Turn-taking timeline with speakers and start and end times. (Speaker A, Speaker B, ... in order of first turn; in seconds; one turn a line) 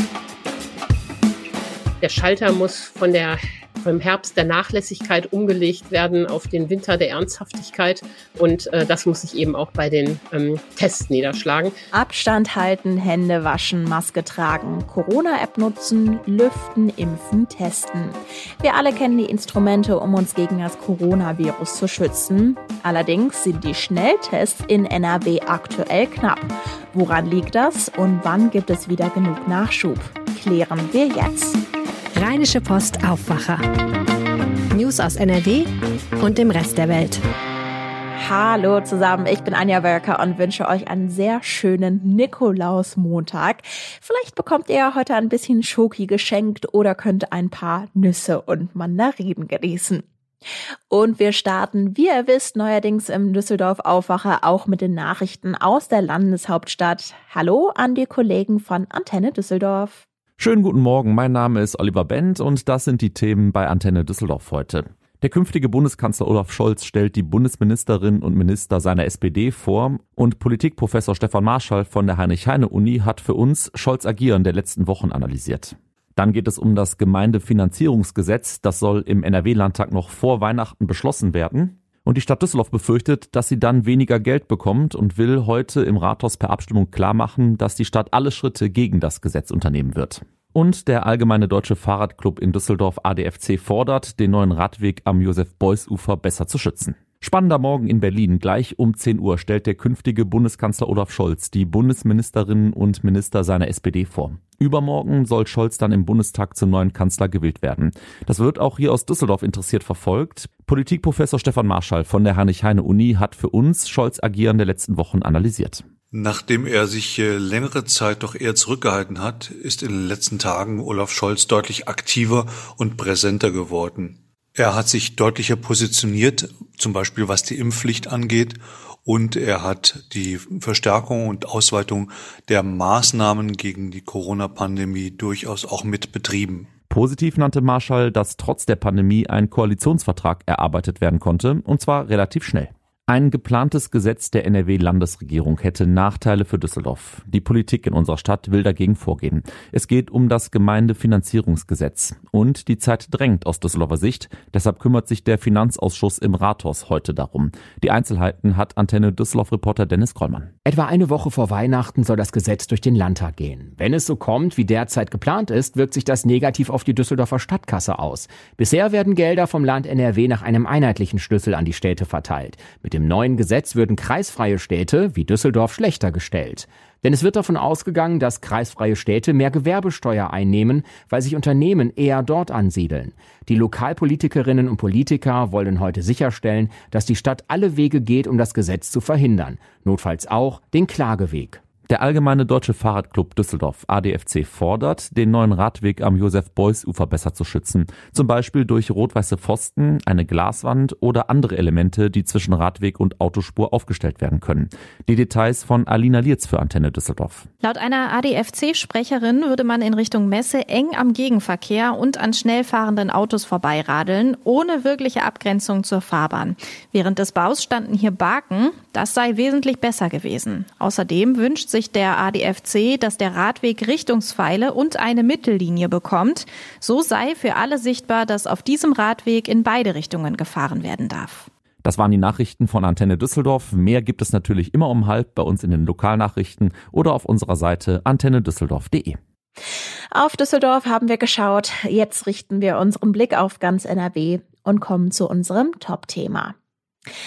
Speaker A: 2.0-11.7
Speaker B: 11.9-31.6
Speaker C: 32.1-33.6
Speaker C: 34.7-37.2
Speaker B: 38.2-50.0
Speaker B: 50.9-60.0
Speaker D: 60.4-115.8
Speaker E: 116.1-136.7
Speaker D: 136.9-160.5
Speaker F: 160.6-191.6
Speaker D: 191.9-207.5
Speaker G: 207.6-231.5
Speaker D: 231.8-239.2
Speaker B: 240.1-246.5